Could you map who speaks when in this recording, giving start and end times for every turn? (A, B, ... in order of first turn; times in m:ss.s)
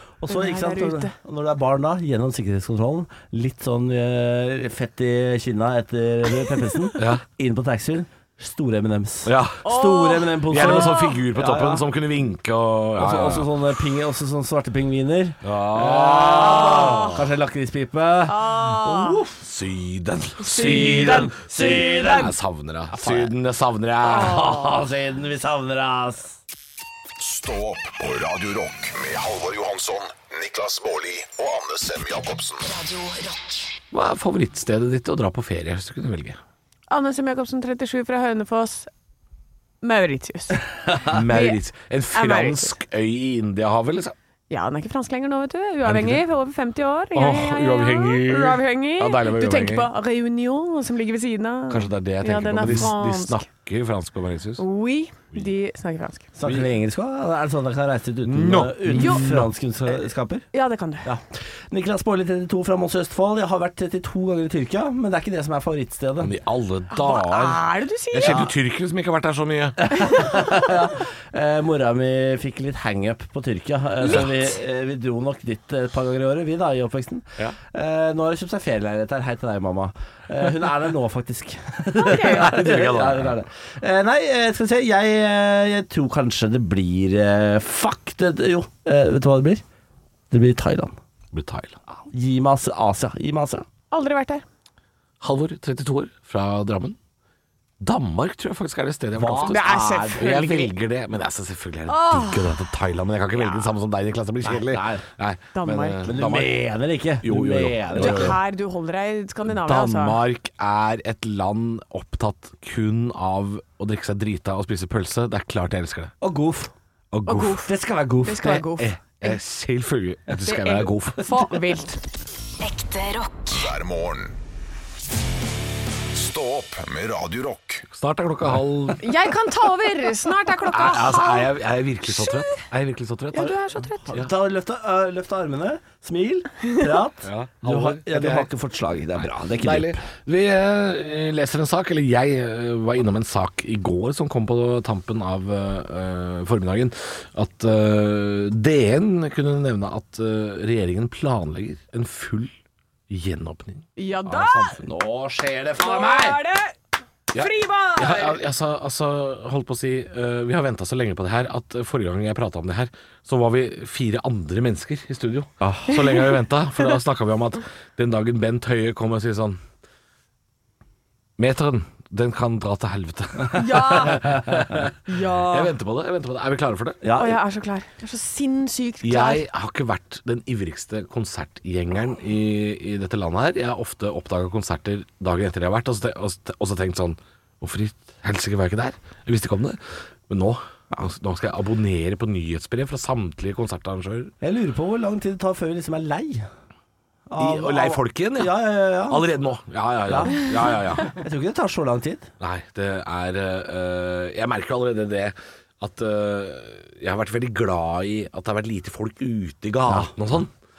0:00.2-0:11.8 A
0:00.3-0:01.1 B
0:07.0-0:07.2 C
0:09.2-0:09.6 C
0:09.6-0:11.2 B
0:10.5-0:13.7 C
0:13.0-0:19.4 A
0:15.4-0:17.3 C
0:16.4-0:17.2 B
0:18.3-0:19.2 B
0:19.4-0:24.5 C
0:20.4-0:22.3 B
0:20.5-0:22.3 A
0:22.9-0:23.3 A
0:24.0-0:26.4 A
0:24.1-0:24.7 B
0:27.2-0:32.6 D
0:32.6-0:33.8 E
0:33.9-0:36.4 C
0:36.9-0:38.9 B
0:39.8-0:41.6 B
0:41.1-0:44.2 C
0:42.1-0:42.8 B
0:44.5-0:53.4 B
0:45.8-0:46.2 C
0:47.1-0:49.9 C
0:51.7-0:54.6 C
0:54.6-0:56.3 B
0:56.4-1:00.5 A
0:56.4-0:56.7 C
0:58.2-0:59.5 C
0:58.9-0:59.3 B
1:00.5-1:01.1 B
1:01.0-1:06.3 A
1:06.2-1:09.9 C
1:06.9-1:08.5 B
1:08.2-1:08.5 A
1:09.8-1:29.6 A
1:14.0-1:14.3 C
1:22.0-1:22.7 B
1:22.2-1:23.4 C
1:30.3-1:31.0 A
1:31.3-1:31.8 C
1:32.1-1:33.7 A
1:33.9-1:34.4 B
1:35.2-1:37.0 C
1:37.8-1:46.6 C
1:39.2-1:40.4 A
1:39.5-1:40.7 B
1:41.9-1:42.6 B
1:43.4-1:43.7 B
1:44.4-1:45.0 A
1:45.5-1:46.1 B
1:46.1-1:48.4 A
1:47.2-1:48.4 C
1:47.9-1:50.2 B
1:49.5-1:56.2 C
1:56.2-1:56.7 A
1:57.1-1:57.6 C
1:57.3-1:57.7 B
1:57.6-1:58.7 A
1:58.2-1:59.4 B
1:58.4-2:01.3 C
2:00.4-2:02.0 B
2:02.6-2:03.6 E
2:03.5-2:04.4 D
2:06.1-2:07.8 D
2:07.9-2:09.1 C
2:09.0-2:11.5 B
2:10.7-2:13.6 C
2:12.1-2:12.6 B
2:13.3-2:14.2 B
2:14.1-2:20.0 A
2:17.2-2:18.5 C
2:19.2-2:32.5 C
2:33.1-2:35.0 C
2:34.0-2:34.8 B
2:34.9-2:36.4 A
2:35.8-2:36.8 B
2:37.3-2:38.4 B
2:37.3-2:49.6 C
2:45.6-2:45.9 A
2:51.4-2:54.9 C
2:53.5-2:54.3 B
2:55.1-2:55.7 B
2:55.4-2:57.0 C
2:57.0-2:57.4 A
2:57.2-2:59.4 B
2:59.0-3:14.3 C
3:14.4-3:16.5 A
3:17.3-3:19.2 A
3:17.4-3:21.2 C
3:20.1-3:22.3 A
3:22.4-3:30.5 C